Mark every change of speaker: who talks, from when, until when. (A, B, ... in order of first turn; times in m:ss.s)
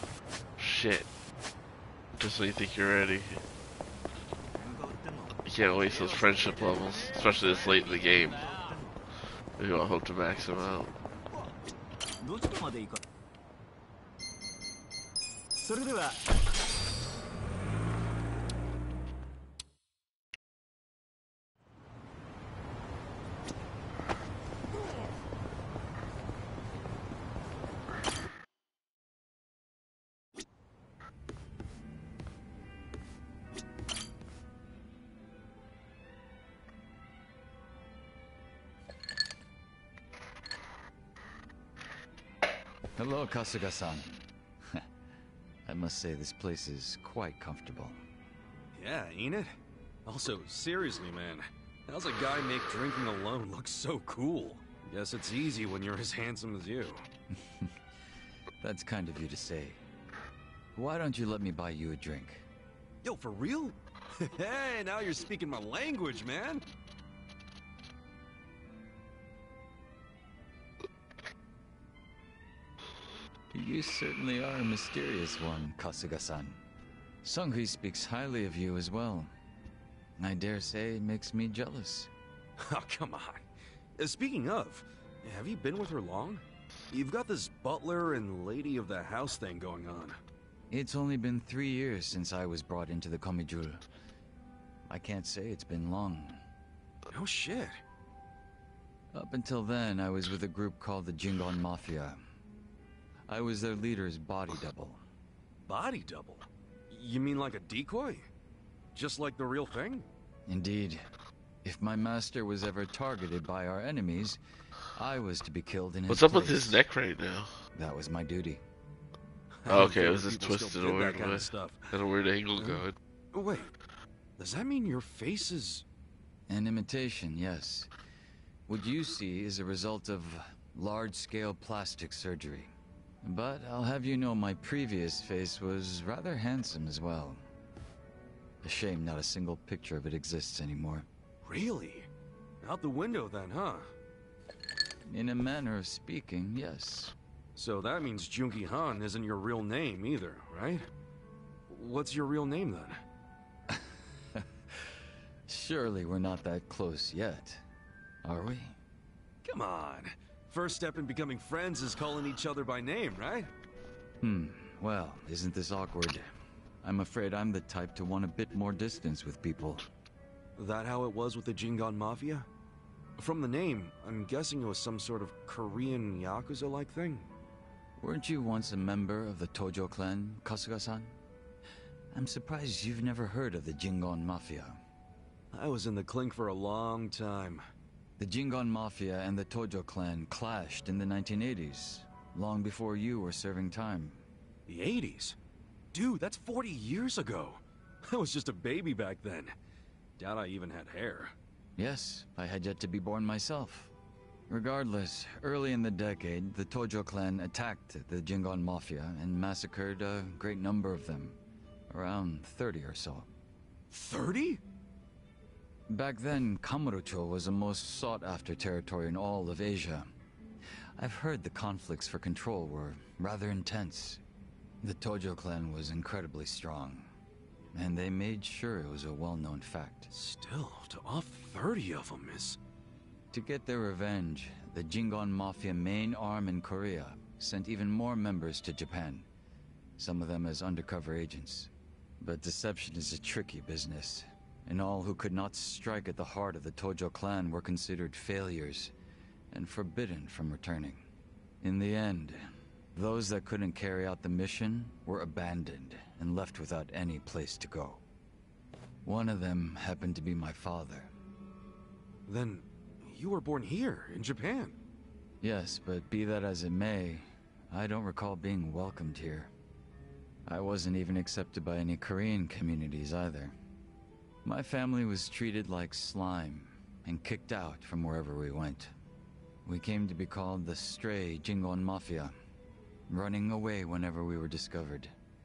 0:00.6-0:01.1 A
0:02.2-0:03.4 A
0:04.6-0:05.3 B
0:05.4-0:08.5 A
0:08.4-0:08.8 B
0:09.6-0:11.0 A
0:12.2-0:13.0 B
0:15.6-0:16.2 B
0:43.0-0:44.8 C
0:45.6-0:48.0 C
0:48.7-0:49.5 D
0:50.0-0:57.0 D
0:57.4-0:57.7 C
0:58.6-0:59.8 C
1:00.7-1:02.4 C
1:03.0-1:06.6 D
1:13.5-1:16.6 C
1:17.2-1:19.3 C
1:20.2-1:22.1 C
1:22.6-1:23.4 D
1:24.0-1:30.2 D
1:30.7-1:33.8 C
1:34.9-1:36.4 C
1:37.1-1:37.8 D
1:39.1-1:42.2 C
1:43.3-1:45.0 C
1:45.7-1:48.3 D
1:48.9-1:50.1 D
1:50.5-1:51.0 C
1:51.6-1:54.4 C
1:54.9-1:56.8 C
1:56.1-1:57.6 A
1:57.7-1:58.6 C
1:59.6-2:01.8 D
1:59.7-2:02.9 A
2:02.6-2:03.7 D
2:04.4-2:05.8 D
2:06.5-2:07.9 C
2:08.7-2:12.7 C
2:13.2-2:17.4 C
2:18.6-2:21.1 C
2:21.4-2:22.1 D
2:22.6-2:23.9 D
2:25.0-2:27.1 C
2:27.6-2:30.9 D
2:31.7-2:33.0 D
2:33.7-2:37.6 C
2:38.2-2:38.8 C
2:39.4-2:43.5 D
2:44.2-2:46.3 C
2:46.8-2:49.8 C
2:50.6-2:52.5 D
2:53.2-2:57.3 D
2:58.0-3:01.2 C
3:02.1-3:04.8 C
3:05.5-3:07.6 D
3:08.2-3:14.2 C
3:14.7-3:15.4 D
3:15.9-3:19.5 D
3:20.2-3:21.3 D
3:21.8-3:23.9 C
3:24.5-3:31.4 C
3:31.9-3:33.3 C
3:33.9-3:34.6 D
3:35.9-3:40.1 C
3:41.0-3:44.2 C
3:44.8-3:47.1 C
3:47.7-3:50.1 C
3:50.1-3:52.6 D
3:53.3-3:59.3 C
4:00.0-4:08.9 C
4:09.5-4:11.0 C
4:11.6-4:18.0 C
4:19.0-4:21.1 C
4:22.3-4:24.8 D
4:25.4-4:29.5 C
4:30.4-4:33.6 C
4:34.4-4:38.9 C
4:39.6-4:42.4 C
4:43.1-4:45.1 C